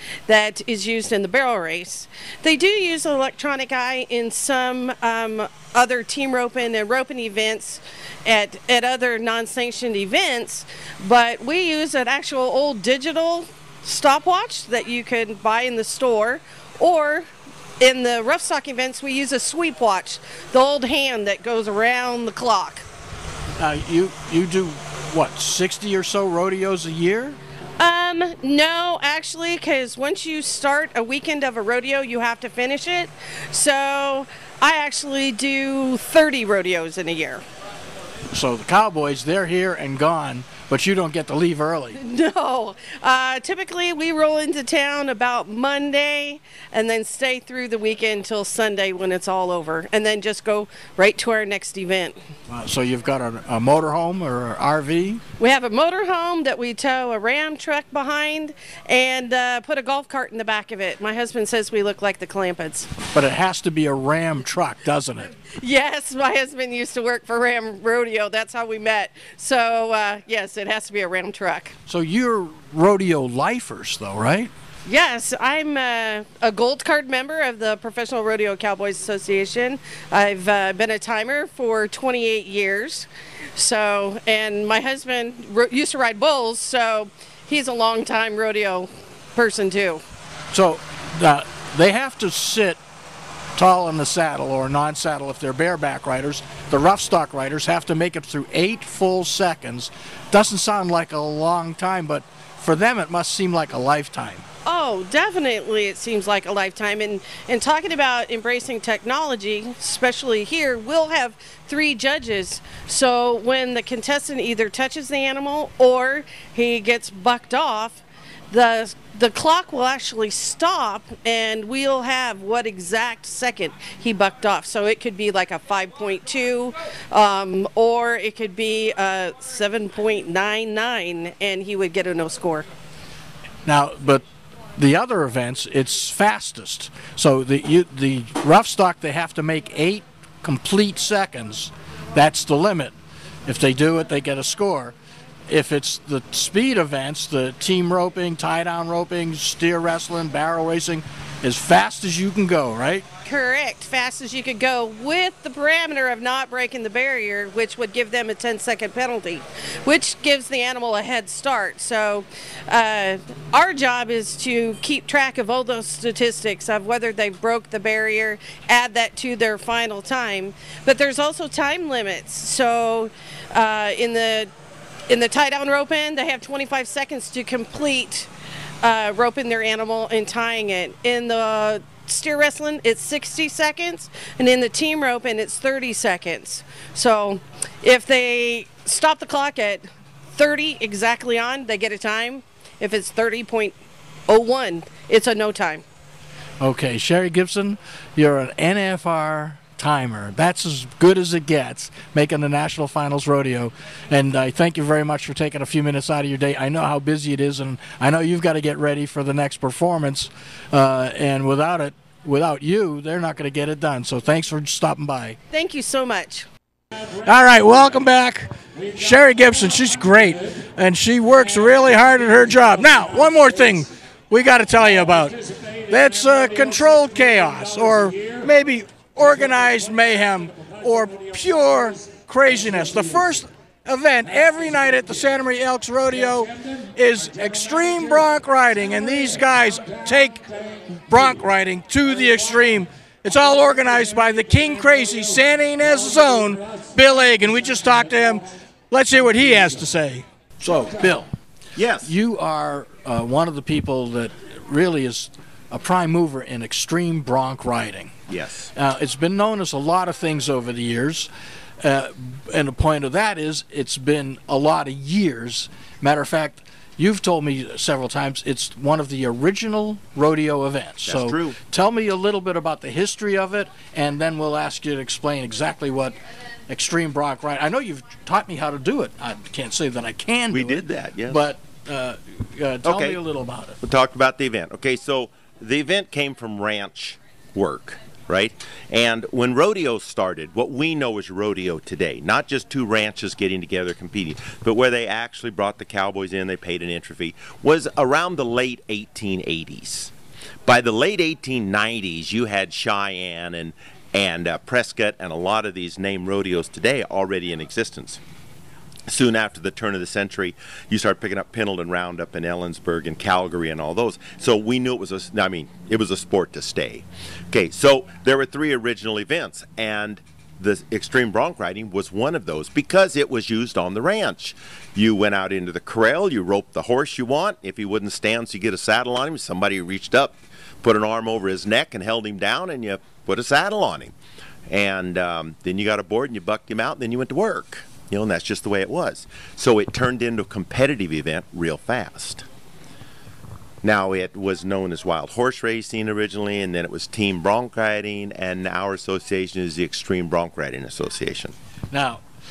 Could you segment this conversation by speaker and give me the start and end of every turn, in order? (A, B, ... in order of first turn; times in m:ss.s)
0:00.3-0:17.3 A
0:17.8-0:22.9 A
0:23.6-0:27.4 B
0:27.8-0:37.4 A
0:38.3-0:42.0 B
0:42.0-0:52.2 A
0:52.5-0:55.2 B
0:55.4-1:02.9 A
1:03.1-1:05.3 B
1:05.6-1:11.8 A
1:11.9-1:14.5 B
1:14.9-1:30.0 A
1:30.5-1:32.8 B
1:33.6-1:44.4 B
1:44.7-2:12.7 A
2:13.7-2:14.2 B
2:14.8-2:22.9 B
2:23.4-2:24.9 B
2:25.5-2:33.0 B
2:33.3-2:54.5 A
2:55.1-2:58.3 A
2:58.8-3:13.8 A
3:14.3-3:15.8 A
3:16.6-3:35.4 B
3:35.5-3:36.5 A
3:37.3-4:00.5 B
4:01.1-4:11.3 B
4:11.8-4:12.1 C
4:12.0-4:18.2 B
4:18.3-4:18.7 C
4:18.7-4:21.3 B
4:21.8-4:36.2 B
4:31.1-4:31.6 C
4:36.7-4:43.8 B
4:40.5-4:41.4 C
4:42.9-4:43.2 C
4:43.8-5:00.1 C
5:00.7-5:08.2 C
5:09.1-5:34.1 C
5:34.7-5:42.4 C
5:43.8-5:51.5 C
5:51.9-5:52.2 B